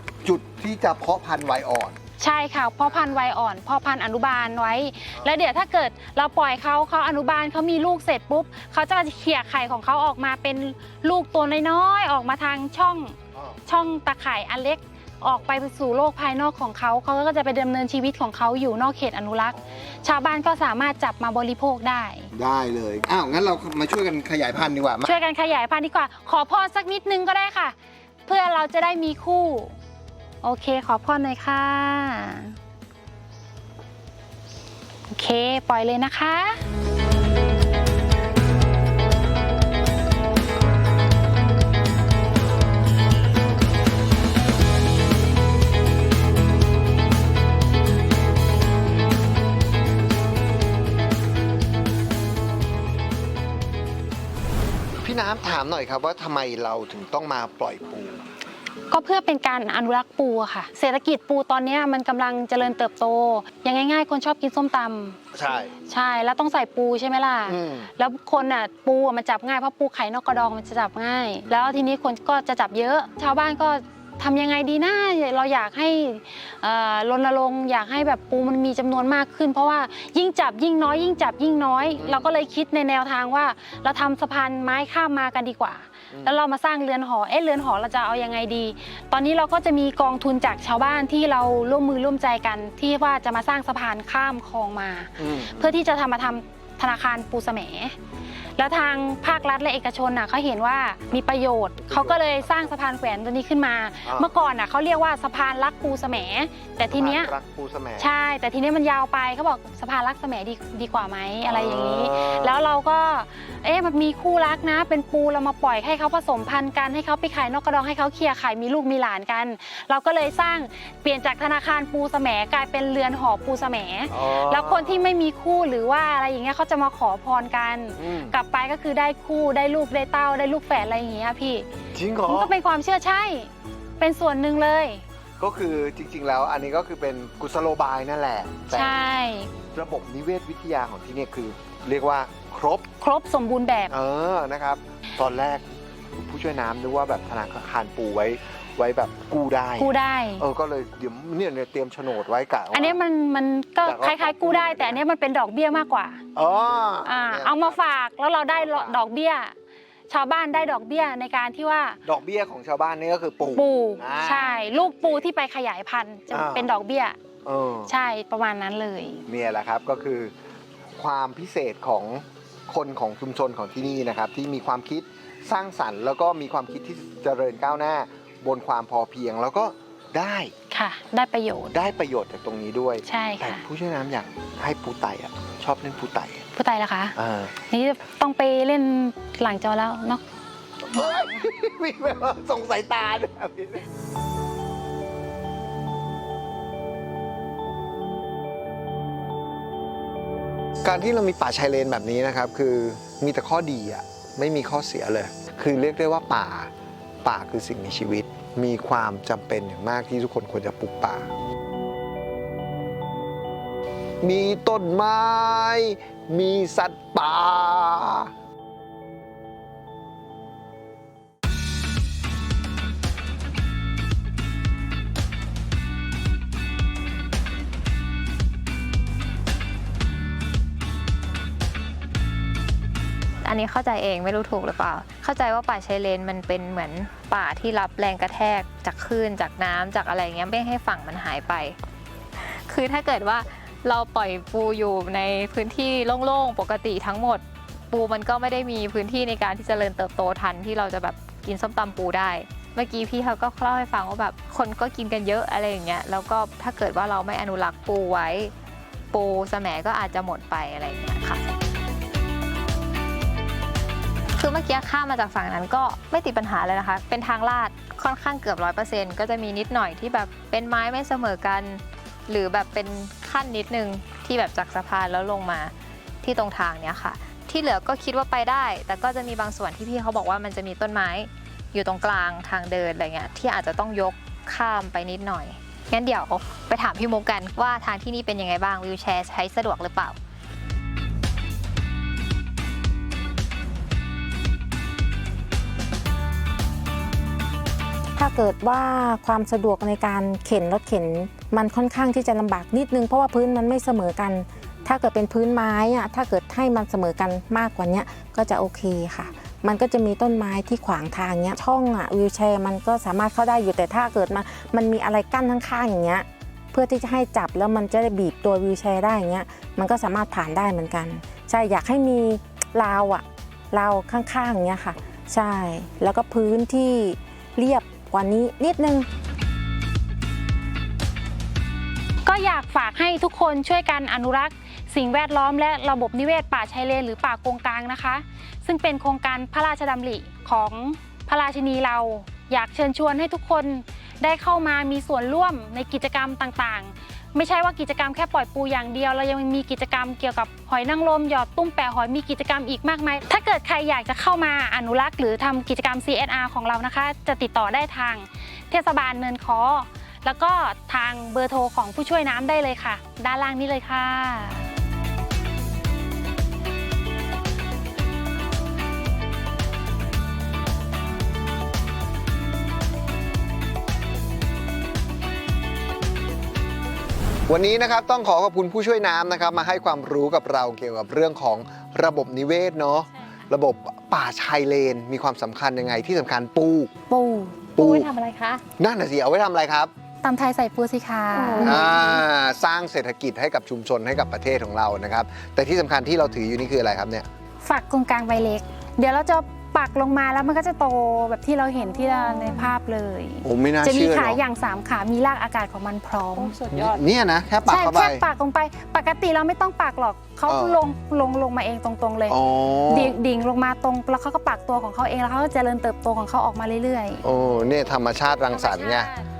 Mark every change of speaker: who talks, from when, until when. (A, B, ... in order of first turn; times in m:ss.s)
0:00.2-0:02.0 A
0:02.2-0:13.2 B
0:13.7-0:22.3 B
0:15.2-0:15.5 A
0:19.6-0:20.0 A
0:22.3-0:25.2 A
0:25.0-0:27.8 B
0:28.3-0:29.8 B
0:30.4-0:32.6 B
0:35.1-0:36.6 B
0:55.0-0:58.2 A
0:58.9-1:05.2 B
1:05.3-1:05.7 A
1:05.9-1:38.0 B
1:07.4-1:07.9 A
1:22.0-1:22.3 A
1:26.1-1:26.4 A
1:35.2-1:35.7 A
1:38.6-1:47.3 B
1:41.8-1:42.7 A
1:44.0-1:44.3 A
1:46.9-1:48.1 A
1:48.0-2:11.6 B
1:51.5-1:52.7 A
2:04.1-2:05.1 A
2:08.0-2:08.4 A
2:11.9-2:12.5 A
2:12.3-2:15.0 B
2:15.4-2:19.0 A
2:18.7-2:19.5 B
2:19.7-2:22.9 A
2:23.0-2:23.9 B
2:23.9-2:33.0 A
2:29.8-2:30.4 B
2:32.7-2:36.2 B
2:33.8-2:35.0 A
2:36.4-2:37.8 A
2:37.0-2:39.5 B
2:38.5-2:39.0 A
2:40.1-2:42.0 B
2:42.0-2:45.2 A
2:43.5-2:47.2 B
2:46.3-2:46.7 A
2:47.4-2:47.9 A
2:47.9-2:49.2 B
2:49.3-2:50.3 A
2:51.0-3:00.5 A
3:00.7-3:01.7 B
3:01.7-3:06.5 A
3:03.0-3:03.6 B
3:06.6-3:07.2 B
3:07.2-3:07.5 A
3:07.7-3:10.2 B
3:10.9-3:13.9 A
3:20.8-3:26.7 A
3:27.2-3:31.3 A
3:34.2-3:38.3 A
3:53.4-4:01.8 C
4:02.4-4:18.5 C
4:19.1-4:21.4 C
4:24.4-4:50.2 C
4:58.2-5:29.1 D
5:32.3-6:04.6 B
6:17.5-6:26.9 A
6:27.1-6:27.9 B
6:27.8-6:28.1 A
6:27.8-6:28.6 C
6:28.8-6:29.9 A
6:30.2-6:31.9 B
6:31.5-6:31.7 C
6:31.6-6:37.3 A
6:37.6-6:46.6 B
6:43.4-6:44.4 A
6:46.4-6:47.0 C
6:46.7-6:48.2 A
6:47.6-6:52.4 B
6:50.5-6:50.8 A
6:52.3-6:53.2 A
6:52.9-6:57.2 B
6:57.2-6:59.1 A
6:58.5-6:59.3 B